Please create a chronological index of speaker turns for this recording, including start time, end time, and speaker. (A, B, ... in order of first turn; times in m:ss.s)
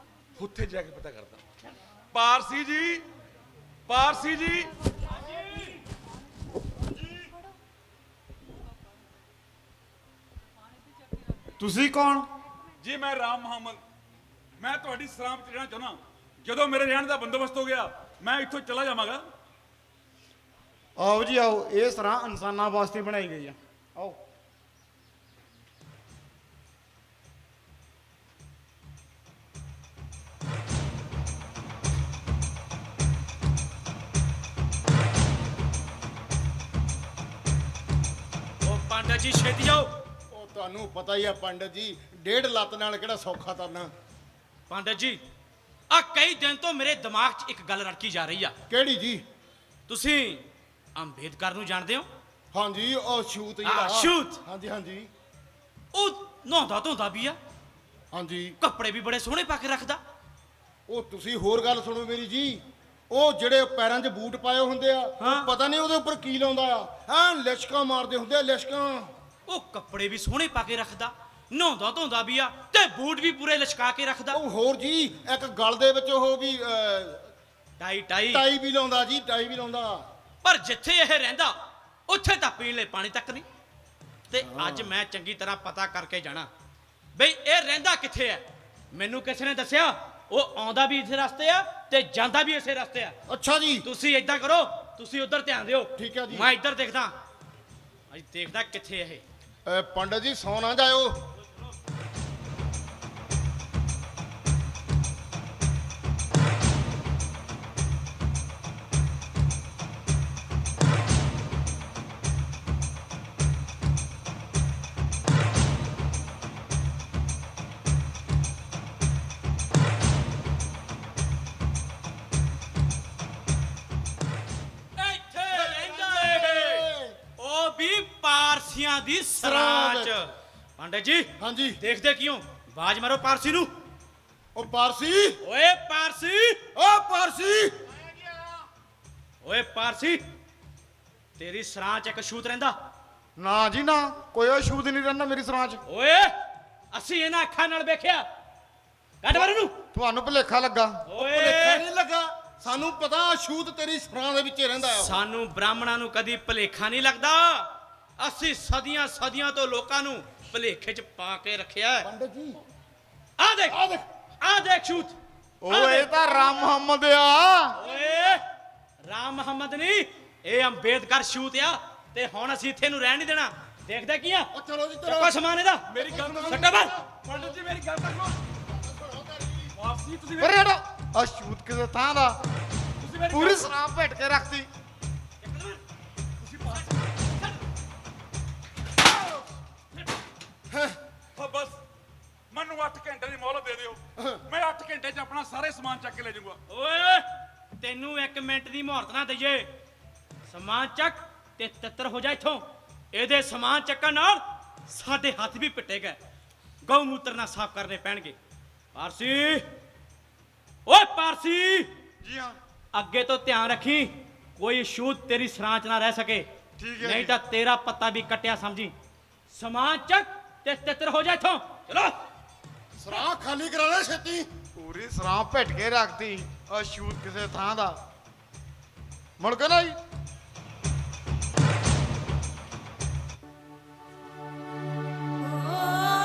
0:00.4-0:01.4 A
0:02.1-0:03.0 A
0:03.9-0:04.7 A
0:05.2-0:05.7 B
0:11.6-0:12.3 C
0:12.8-0:13.8 A
0:14.6-0:19.3 A
0:21.0-0:24.2 C
0:38.6-0:39.9 B
0:40.3-0:43.9 D
0:44.7-0:45.2 B
0:45.9-0:48.5 B
0:48.7-0:49.2 D
0:49.9-0:52.1 B
0:52.5-0:55.1 D
0:53.6-0:54.4 B
0:55.9-0:57.4 B
0:58.1-0:58.6 D
0:58.6-1:00.0 B
1:00.9-1:09.1 D
1:05.2-1:05.5 B
1:09.5-1:14.4 B
1:14.3-1:17.2 D
1:17.8-1:18.4 B
1:18.3-1:20.0 D
1:20.4-1:21.6 B
1:22.1-1:23.4 B
1:24.3-1:26.5 B
1:24.4-1:24.9 D
1:27.1-1:33.1 B
1:33.3-1:33.8 D
1:33.8-1:37.1 B
1:36.0-1:36.5 D
1:38.1-1:39.2 B
1:39.6-1:41.2 D
2:05.0-2:06.8 B
2:05.5-2:07.2 D
2:07.4-2:11.3 B
2:09.4-2:10.1 D
2:11.4-2:11.8 D
2:11.8-2:13.7 B
2:14.5-2:15.4 D
2:15.4-2:16.6 B
2:16.7-2:17.7 D
2:19.4-2:20.2 B
2:21.4-2:22.7 B
2:23.4-2:25.8 C
2:25.8-2:26.3 B
2:26.9-2:28.2 B
2:29.2-2:29.7 B
2:29.9-2:31.0 C
2:31.1-2:31.8 B
2:31.1-2:35.2 D
2:34.8-2:37.7 B
2:38.2-2:42.1 B
2:42.0-2:42.6 D
2:43.4-2:43.8 B
2:43.7-2:44.0 D
2:44.4-2:45.2 B
2:45.6-2:47.8 C
2:45.7-2:46.2 B
2:47.7-2:48.4 B
2:49.1-2:54.5 B
2:54.5-2:55.4 D
2:55.0-2:55.8 B
2:55.9-2:58.4 A
2:56.0-2:57.4 D
2:56.4-2:56.9 B
2:58.6-2:59.7 D
2:59.7-3:00.6 A
3:00.4-3:02.4 C
3:03.0-3:03.7 A
3:03.3-3:04.7 C
3:05.4-3:05.8 B
3:06.4-3:06.8 A
3:07.2-3:07.6 B
3:10.7-3:11.0 D
3:11.4-3:11.8 A
3:12.5-3:16.6 A
3:16.7-3:17.2 B
3:17.8-3:19.7 B
3:20.5-3:26.2 B
3:26.8-3:28.3 B
3:28.9-3:29.6 B
3:30.9-3:31.9 B
3:32.2-3:32.6 C
3:32.9-3:36.4 B
3:36.8-3:37.3 C
3:37.0-3:38.9 B
3:39.5-3:42.2 B
3:43.0-3:44.5 D
3:44.8-3:48.0 C
3:49.4-3:50.0 C